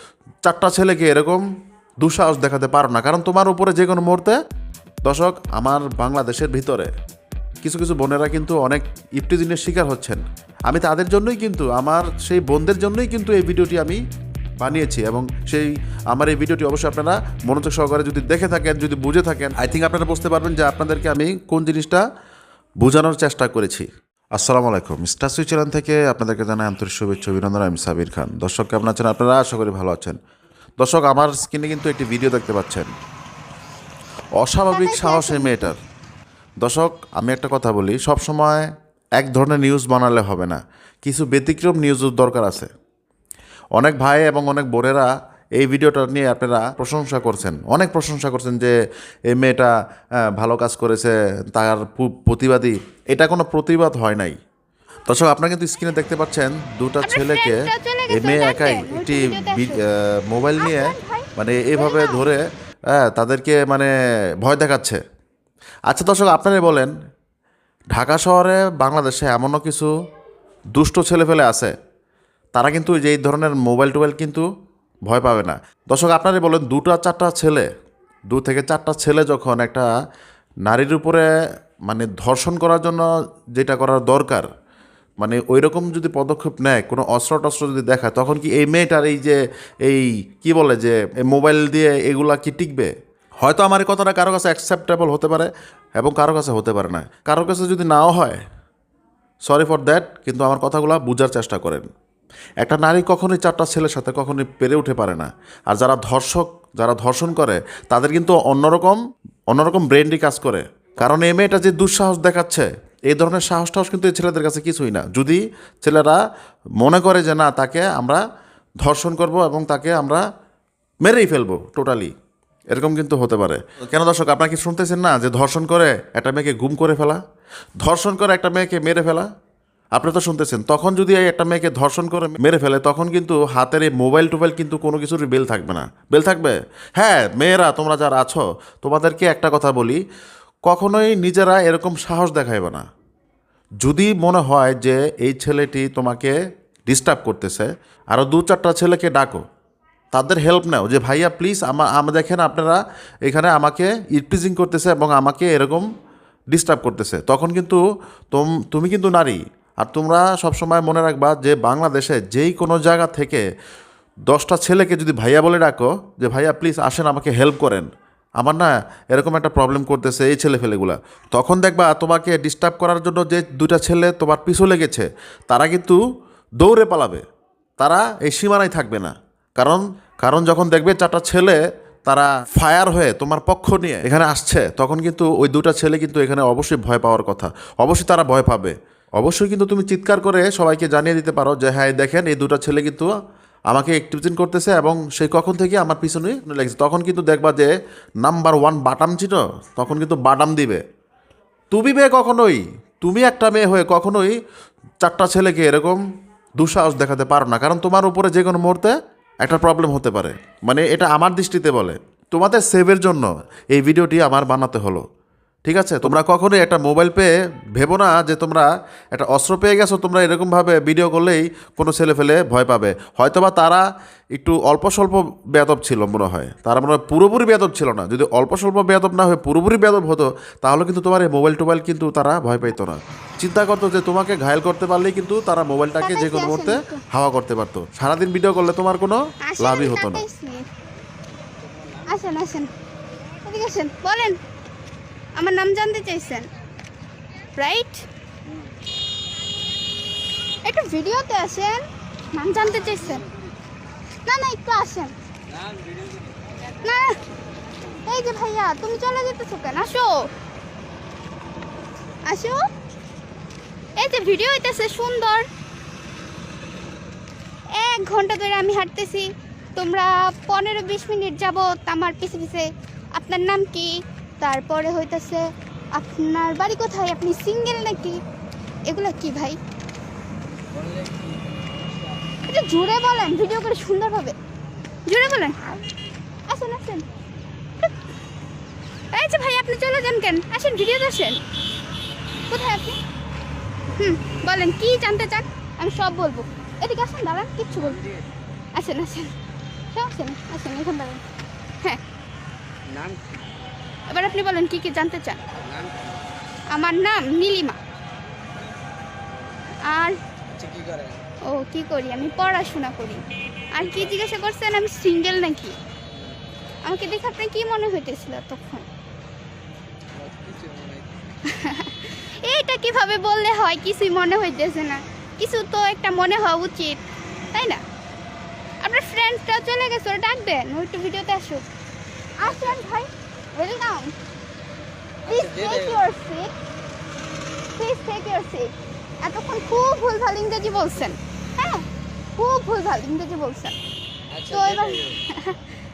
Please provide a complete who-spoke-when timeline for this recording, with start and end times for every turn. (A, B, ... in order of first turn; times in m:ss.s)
0:00.4-0:01.4 A
0:02.0-0:04.4 A
0:05.0-0:06.9 A
0:07.6-0:14.0 A
0:14.6-0:22.0 A
0:22.8-0:30.2 A
0:30.8-0:32.9 A
0:34.4-0:35.8 A
0:34.7-0:35.6 B
0:36.6-0:42.7 A
0:43.8-0:48.7 A
0:49.3-0:49.7 A
0:50.3-0:54.4 A
0:55.1-1:03.9 A
0:57.0-0:59.8 B
1:00.6-1:02.2 B
1:04.4-1:05.0 A
1:05.9-1:06.9 A
1:07.9-1:09.9 A
1:10.7-1:11.7 A
1:12.5-1:14.4 A
1:15.1-1:17.7 A
1:18.3-1:19.9 A
1:20.6-1:21.3 A
1:21.8-1:24.4 A
1:25.2-1:38.4 A
1:39.5-1:41.9 A
1:42.6-1:56.2 A
1:56.8-1:58.2 A
1:58.8-2:00.2 A
2:01.0-2:02.1 A
2:02.7-2:07.2 A
2:07.8-2:09.3 A
2:09.9-2:20.0 A
2:20.6-2:22.8 A
2:23.8-2:26.4 A
2:26.9-2:29.4 A
2:30.1-2:35.9 A
2:36.5-2:43.4 A
2:44.3-2:47.9 A
2:48.4-2:56.0 A
2:56.6-2:57.2 A
2:57.8-3:13.1 A
3:13.7-3:17.7 A
3:18.2-3:20.8 A
3:21.7-3:24.4 A
3:25.0-3:26.0 A
3:26.6-3:35.0 A
3:35.6-4:00.2 A
3:56.0-3:57.0 B
3:59.4-4:00.6 B
4:01.6-4:02.2 C
4:02.1-4:02.7 B
4:03.4-4:04.4 B
4:05.4-4:06.5 B
4:07.6-4:08.0 B
4:08.4-4:08.8 C
4:10.6-4:11.8 B
4:12.3-4:13.2 B
4:14.2-4:15.1 B
4:15.5-4:16.5 C
4:16.8-4:17.2 B
4:18.0-4:20.3 B
4:22.2-4:22.6 B
4:24.0-4:25.5 B
4:27.7-4:38.2 B
4:38.9-4:39.6 B
4:40.7-4:42.2 C
4:42.5-4:44.4 B
4:45.1-4:45.6 B
4:46.5-4:47.0 B
4:49.1-4:51.4 B
4:52.5-4:53.0 B
4:54.0-4:58.0 B
4:57.7-4:58.3 C
4:58.7-4:59.3 B
4:59.9-5:01.2 B
5:02.9-5:03.5 C
5:04.1-5:05.4 B
5:05.5-5:06.3 C
5:06.7-5:07.8 B
5:09.2-5:09.7 C
5:09.8-5:10.2 B
5:10.5-5:11.2 C
5:11.4-5:15.8 B
5:13.8-5:14.2 C
5:16.1-5:16.4 C
5:16.8-5:18.8 B
5:20.1-5:21.2 C
5:21.5-5:27.0 B
5:27.5-5:27.8 B
5:28.8-5:31.6 B
5:32.4-5:34.1 B
5:32.4-5:32.8 C
5:35.2-5:36.0 C
5:35.3-5:36.5 B
5:37.8-5:38.7 B
5:39.2-5:43.7 B
5:44.3-5:45.2 C
5:44.5-5:45.6 B